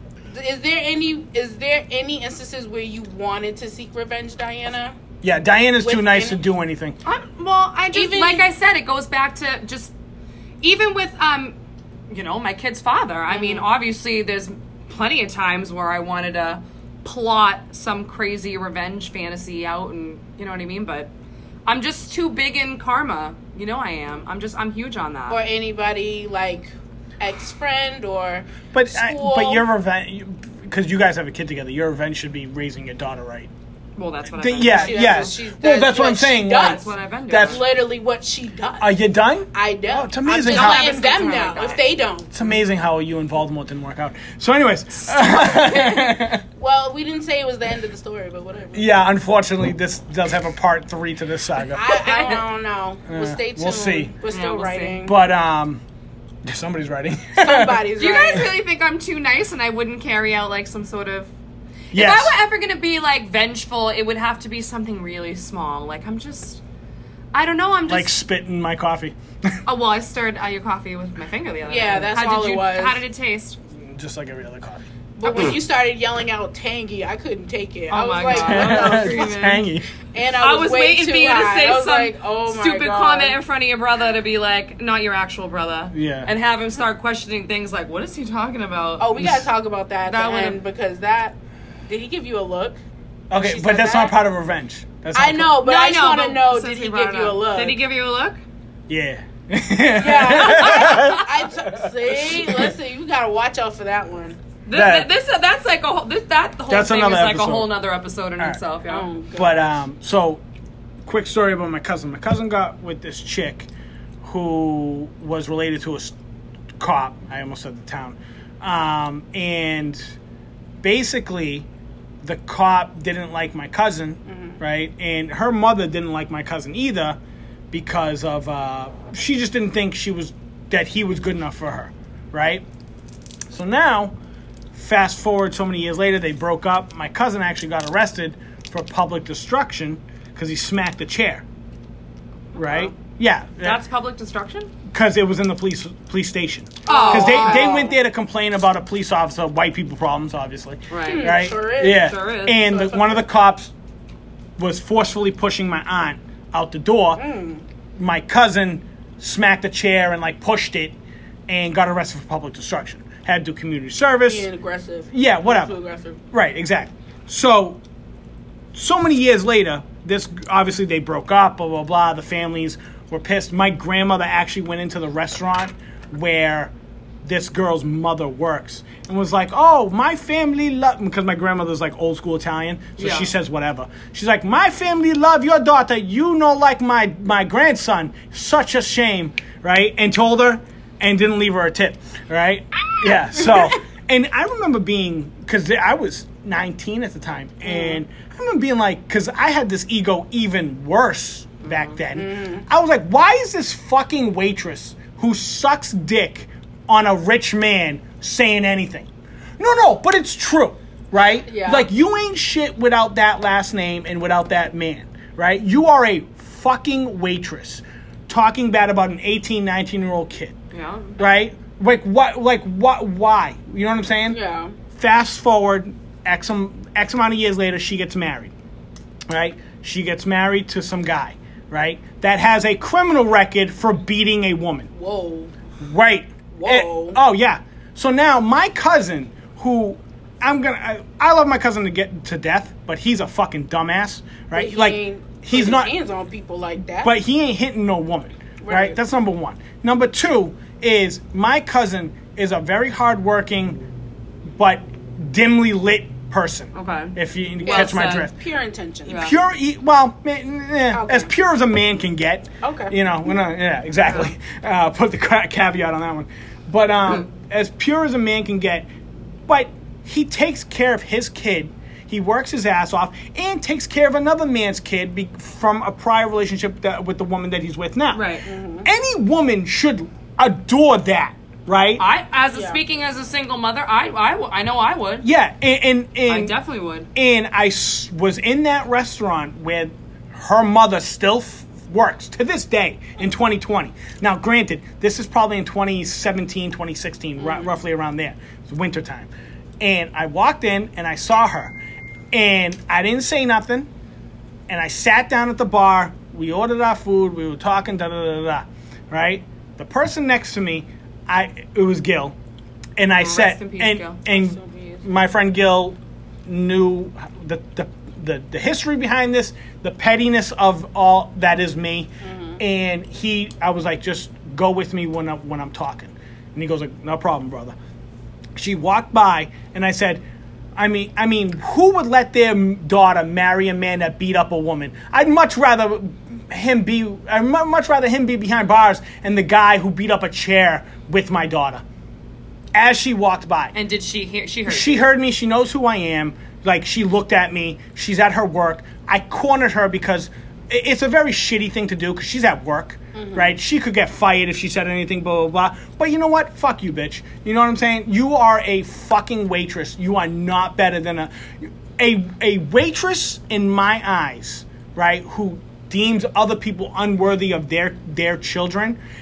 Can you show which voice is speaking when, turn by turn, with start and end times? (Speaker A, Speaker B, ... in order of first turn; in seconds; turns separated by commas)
Speaker A: 0.3-5.0, Speaker B: 5.2-7.0, Speaker A: 5.8-6.4, Speaker C: 7.0-9.9, Speaker A: 7.9-8.5, Speaker C: 10.6-11.6, Speaker C: 12.1-21.1, Speaker A: 13.3-13.7, Speaker C: 21.7-25.4, Speaker A: 25.3-29.6, Speaker B: 28.7-33.5, Speaker C: 34.0-35.4, Speaker B: 34.4-37.6, Speaker A: 34.7-39.0, Speaker C: 36.5-37.6, Speaker B: 38.8-41.0, Speaker A: 39.5-42.3, Speaker C: 40.4-41.8, Speaker B: 42.3-46.4, Speaker C: 45.1-46.1, Speaker A: 46.6-48.9, Speaker B: 48.7-51.9, Speaker A: 51.7-55.2, Speaker C: 51.9-52.5, Speaker B: 53.1-54.1, Speaker C: 54.3-55.0, Speaker B: 55.0-55.8, Speaker B: 56.5-57.8, Speaker A: 57.4-58.5, Speaker C: 58.0-61.3, Speaker B: 61.9-62.3, Speaker C: 61.9-66.6, Speaker C: 67.3-68.2, Speaker B: 67.9-69.6, Speaker C: 69.7-73.6, Speaker A: 71.7-73.0, Speaker B: 73.8-74.8, Speaker A: 75.2-79.5, Speaker C: 77.9-79.7, Speaker B: 78.3-79.9, Speaker A: 80.1-83.4, Speaker C: 80.4-89.3, Speaker B: 85.9-86.3, Speaker A: 89.0-91.4, Speaker B: 89.2-89.4, Speaker C: 90.1-90.6, Speaker A: 91.9-92.8, Speaker B: 93.3-95.6, Speaker A: 93.4-94.2, Speaker A: 95.1-97.8, Speaker C: 95.6-98.4, Speaker B: 98.9-102.7, Speaker A: 100.0-104.4, Speaker C: 100.5-101.0, Speaker C: 104.7-109.1, Speaker B: 104.7-105.1, Speaker B: 106.7-107.7, Speaker A: 108.9-109.8, Speaker B: 109.4-110.4, Speaker B: 111.1-113.7, Speaker B: 114.2-116.1, Speaker B: 116.8-120.1, Speaker B: 120.8-121.7, Speaker B: 122.2-127.2, Speaker A: 124.3-124.6, Speaker B: 127.7-132.6, Speaker B: 133.5-134.2, Speaker B: 134.7-141.4, Speaker C: 142.6-142.9, Speaker B: 142.6-143.8, Speaker C: 143.6-144.7, Speaker B: 144.9-153.7, Speaker A: 146.9-148.0, Speaker C: 146.9-147.8, Speaker C: 150.9-152.6, Speaker A: 151.1-153.2, Speaker B: 154.6-157.2, Speaker A: 157.2-157.6, Speaker B: 158.0-160.9, Speaker B: 161.5-164.5, Speaker A: 164.2-166.2, Speaker B: 165.1-165.8, Speaker B: 166.3-167.8, Speaker B: 168.7-176.7, Speaker B: 177.2-209.1, Speaker C: 183.0-183.3, Speaker A: 193.4-193.7, Speaker A: 197.6-198.0, Speaker A: 202.1-202.7, Speaker B: 209.6-220.6, Speaker A: 211.4-211.9, Speaker C: 220.7-221.2, Speaker B: 221.2-224.4, Speaker A: 224.3-224.8, Speaker B: 224.9-228.5, Speaker B: 229.3-234.9, Speaker A: 234.9-235.5, Speaker B: 235.8-245.9, Speaker A: 236.5-237.2, Speaker A: 244.5-247.2, Speaker B: 247.0-253.8, Speaker A: 248.6-249.0, Speaker B: 254.6-258.3, Speaker C: 256.8-258.3, Speaker A: 257.6-259.3, Speaker C: 259.1-259.3, Speaker B: 259.1-268.9, Speaker A: 260.9-261.3, Speaker A: 262.6-263.0, Speaker B: 269.5-278.2, Speaker C: 278.1-278.5, Speaker A: 278.4-278.9, Speaker B: 278.8-282.0, Speaker C: 282.0-285.3, Speaker A: 282.5-282.8, Speaker B: 285.2-286.6, Speaker C: 286.3-287.1, Speaker B: 287.1-299.3, Speaker A: 297.4-297.7, Speaker B: 299.8-301.8, Speaker B: 302.3-303.9, Speaker B: 304.7-312.4, Speaker B: 313.0-327.8, Speaker C: 313.2-314.2, Speaker A: 314.3-315.0, Speaker A: 322.2-322.6, Speaker B: 328.6-330.2, Speaker B: 330.8-341.8, Speaker B: 342.8-343.8, Speaker C: 343.7-345.0, Speaker B: 344.7-369.0, Speaker A: 353.1-353.5